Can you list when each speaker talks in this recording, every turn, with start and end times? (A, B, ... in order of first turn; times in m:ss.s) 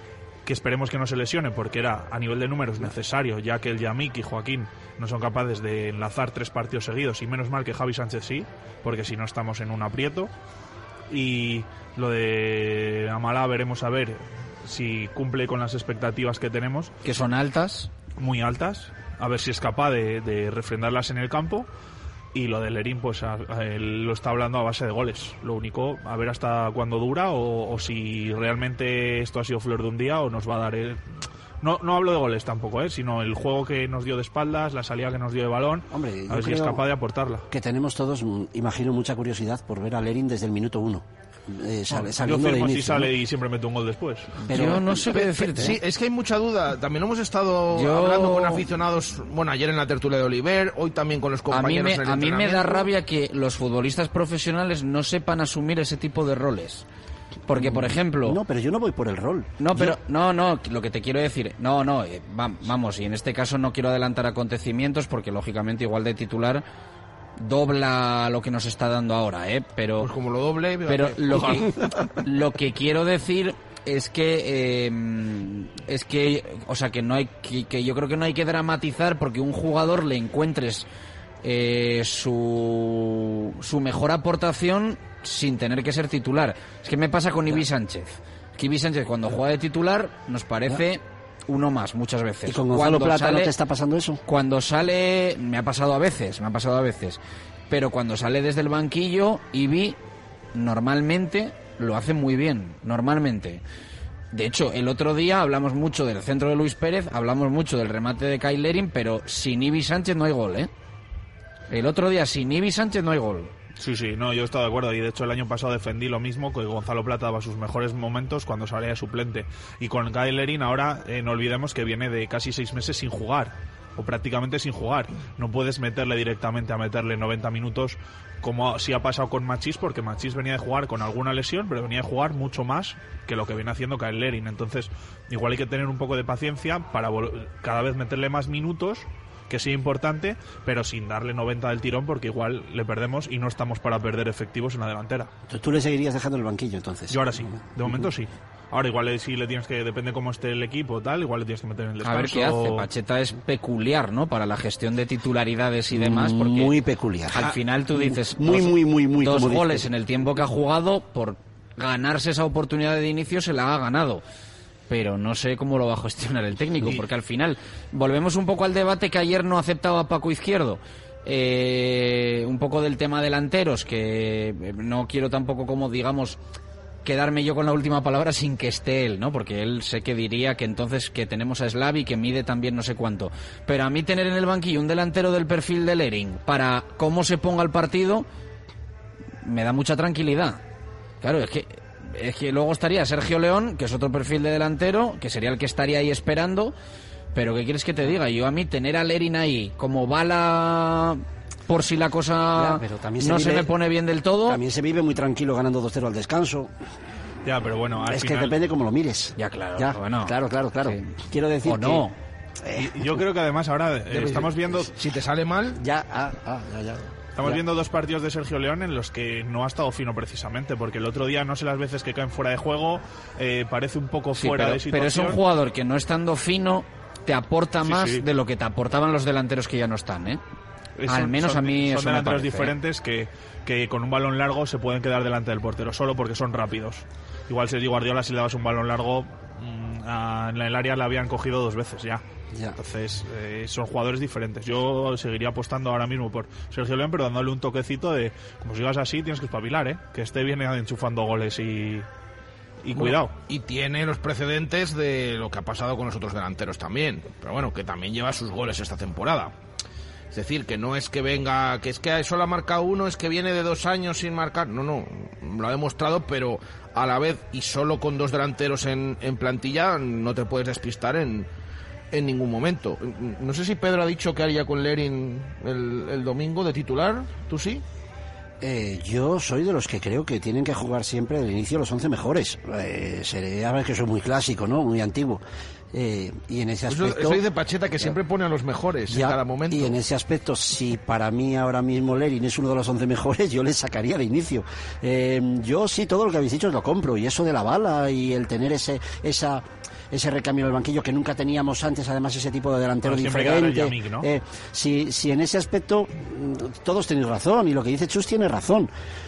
0:00.4-0:10.3 A
0:11.1-0:16.9 A
0:17.0-0:17.9 B
0:18.2-0:21.7 A
0:22.3-0:31.0 A
0:31.6-0:37.4 A
0:35.9-0:36.8 C
0:37.5-0:43.1 C
0:41.9-0:44.3 A
0:44.4-0:45.7 C
0:44.5-0:45.8 B
0:45.0-0:52.9 D
0:47.7-0:48.6 B
0:51.5-0:56.8 B
0:57.5-0:58.4 B
0:57.5-1:00.0 C
0:59.6-1:06.6 B
1:07.4-1:10.1 B
1:10.0-1:11.9 D
1:10.9-1:20.8 B
1:21.4-1:33.5 B
1:32.5-1:34.2 C
1:34.2-1:40.0 B
1:40.5-1:43.6 B
1:44.3-1:50.7 B
1:51.7-1:53.5 B
1:53.8-2:25.3 A
2:25.5-2:28.0 C
2:27.1-2:32.9 A
2:32.0-2:36.7 B
2:35.9-2:39.9 C
2:37.3-2:44.2 B
2:44.9-2:56.4 B
2:57.0-3:08.3 B
3:09.4-3:10.6 B
3:11.2-3:16.7 B
3:17.3-3:24.6 B
3:22.6-3:23.7 C
3:24.5-3:26.7 C
3:27.4-3:28.6 A
3:28.0-3:32.0 C
3:29.4-3:31.1 B
3:31.6-3:32.1 B
3:32.6-3:33.2 C
3:32.8-3:34.9 A
3:34.1-3:35.8 D
3:35.8-3:37.6 C
3:37.4-3:45.4 A
3:44.3-3:50.4 B
3:47.8-3:48.2 A
3:51.0-4:02.2 A
3:51.1-3:52.8 B
4:02.5-4:02.8 C
4:02.8-4:12.0 A
4:12.8-4:13.3 A
4:13.0-4:19.5 D
4:20.3-4:31.5 D
4:32.1-4:37.8 D
4:38.6-4:45.4 C
4:45.9-4:47.4 C
4:46.9-4:50.0 D
4:49.1-5:08.9 C
5:03.0-5:04.3 A